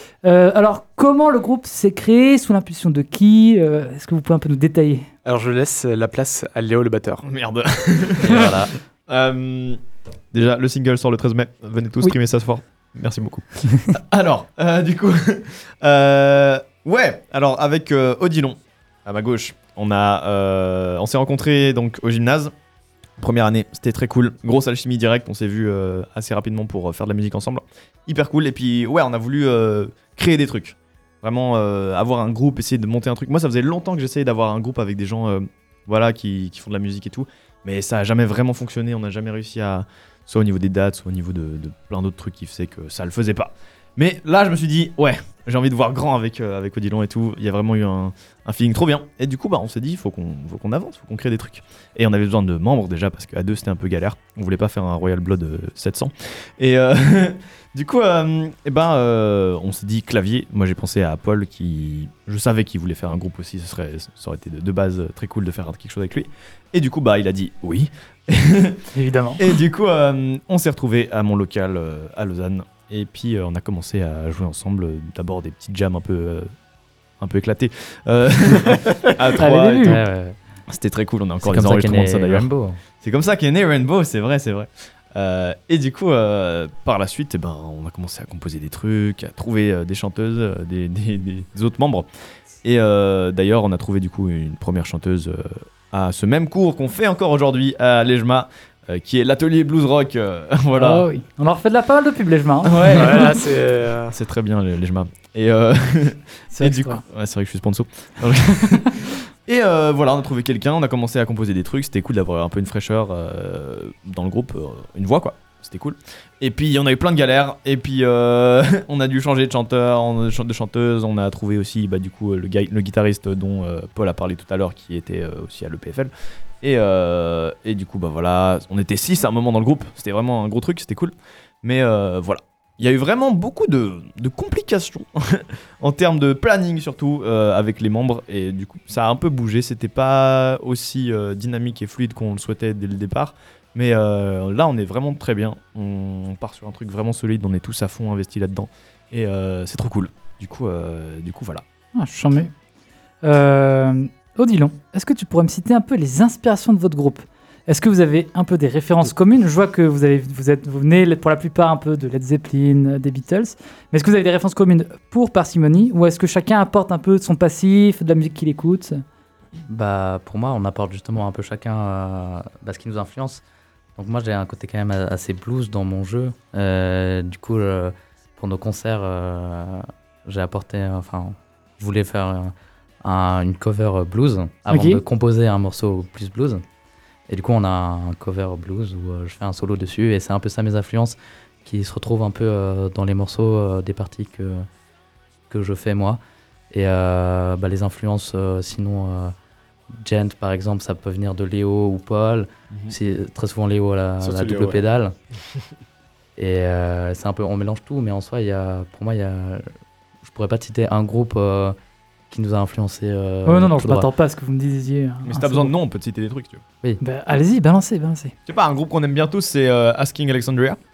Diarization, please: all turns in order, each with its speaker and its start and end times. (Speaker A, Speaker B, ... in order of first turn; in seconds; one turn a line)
Speaker A: 0.2-5.1
Speaker B: 5.2-7.2
Speaker C: 7.2-22.5
Speaker D: 8.2-8.7
Speaker C: 23.2-68.9
Speaker A: 68.9-69.5
Speaker C: 69.4-76.5
Speaker C: 77.2-80.0
Speaker A: 79.4-80.0
Speaker D: 79.8-80.4
Speaker C: 80.7-82.5
Speaker D: 81.4-82.8
Speaker C: 83.0-92.0
Speaker C: 92.6-101.0
Speaker A: 100.7-103.4
Speaker C: 102.6-103.4
Speaker B: 102.9-104.1
Speaker C: 104.1-126.1
Speaker A: 106.5-107.0
Speaker C: 126.6-151.6
Speaker A: 151.9-152.5
Speaker A: 153.2-169.0
Speaker D: 169.7-173.4
Speaker D: 173.9-186.6
Speaker A: 184.7-185.0
Speaker D: 187.3-194.7
Speaker D: 195.5-196.2
Speaker D: 196.7-199.3
Speaker D: 199.9-205.2
Speaker B: 204.2-204.8
Speaker D: 206.4-209.7
Speaker D: 210.2-211.8
Speaker D: 212.3-214.1
Speaker A: 213.4-215.7
Speaker C: 215.2-216.6
Speaker A: 217.0-218.3
Speaker C: 218.4-220.8